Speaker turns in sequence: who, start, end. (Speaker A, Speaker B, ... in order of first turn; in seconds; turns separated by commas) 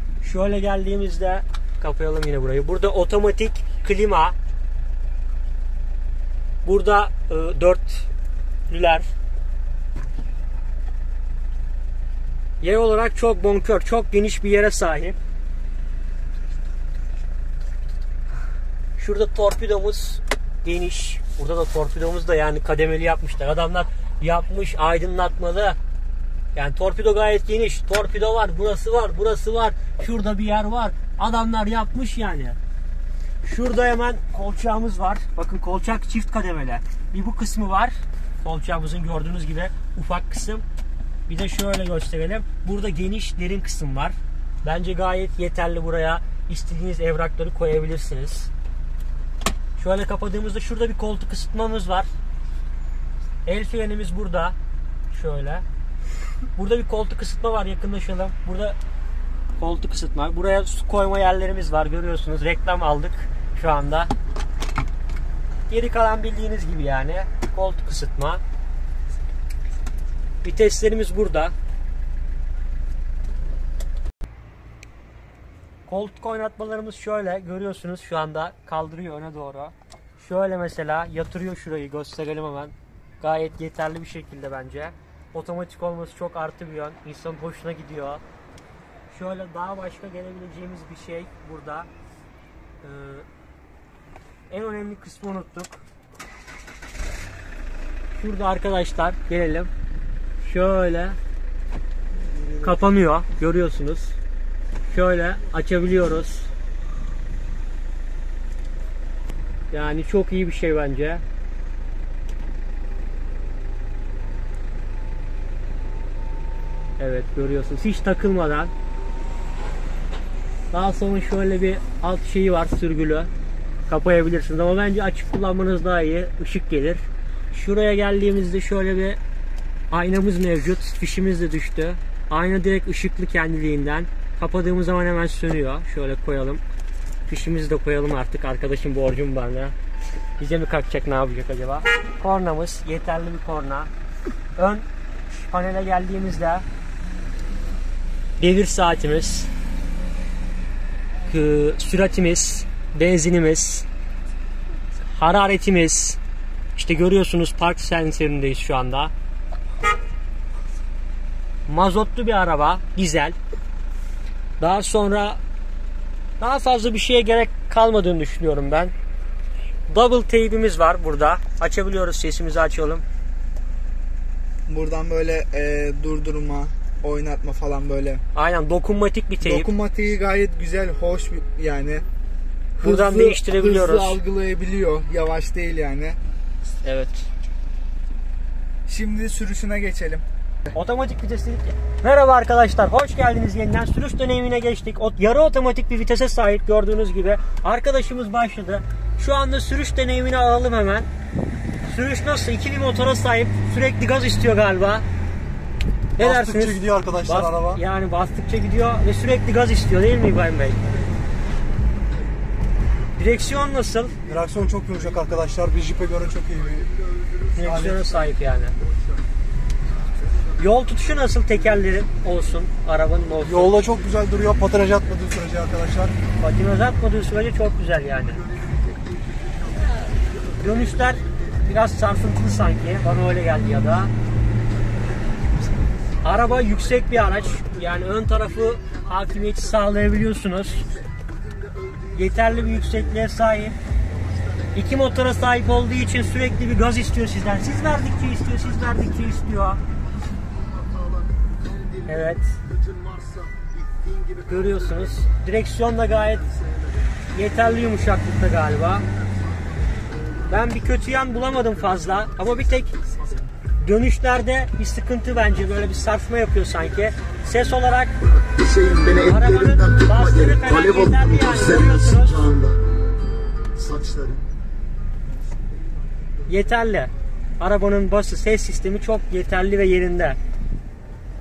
Speaker A: 0.2-4.3, Speaker A: 6.6-8.1, Speaker A: 8.7-9.1, Speaker A: 12.6-15.2, Speaker A: 19.0-25.8, Speaker A: 26.5-32.6, Speaker A: 33.4-40.6, Speaker A: 41.3-48.5, Speaker A: 49.8-52.1, Speaker A: 53.4-54.5, Speaker A: 55.1-55.6, Speaker A: 56.5-58.8, Speaker A: 59.6-64.1, Speaker A: 65.7-68.4, Speaker A: 70.4-71.5, Speaker A: 75.9-88.2, Speaker A: 89.1-91.9, Speaker A: 92.8-93.2, Speaker A: 94.5-95.8, Speaker A: 98.2-99.7, Speaker A: 100.4-101.2, Speaker A: 102.5-104.2, Speaker A: 104.9-106.5, Speaker A: 109.7-111.2, Speaker A: 117.0-118.7, Speaker A: 120.7-123.3, Speaker A: 123.9-129.2, Speaker A: 129.9-136.6, Speaker A: 137.3-139.7, Speaker A: 140.4-143.9, Speaker A: 144.6-146.6, Speaker A: 148.4-149.5, Speaker A: 151.2-153.8, Speaker A: 155.0-156.2, Speaker A: 156.7-159.1, Speaker A: 161.7-163.3, Speaker A: 164.6-165.4, Speaker A: 166.4-168.9, Speaker A: 169.9-173.0, Speaker B: 174.7-178.2, Speaker A: 178.3-179.7, Speaker B: 179.4-182.0, Speaker B: 182.8-186.2, Speaker A: 182.8-184.2, Speaker A: 186.8-187.2, Speaker B: 188.9-190.2, Speaker A: 190.7-201.1, Speaker A: 201.8-205.0, Speaker A: 206.2-211.0, Speaker C: 206.2-207.8, Speaker A: 213.2-214.2, Speaker C: 214.2-216.9, Speaker A: 217.5-218.7, Speaker A: 220.6-223.9, Speaker C: 223.6-226.1, Speaker A: 226.4-228.4, Speaker A: 230.5-234.1, Speaker A: 236.2-240.9, Speaker A: 242.1-243.8, Speaker A: 244.7-249.8, Speaker A: 252.0-252.6, Speaker A: 254.4-256.5, Speaker A: 257.3-259.1, Speaker A: 260.4-262.9, Speaker A: 263.8-268.2, Speaker A: 268.9-272.7, Speaker A: 276.4-280.4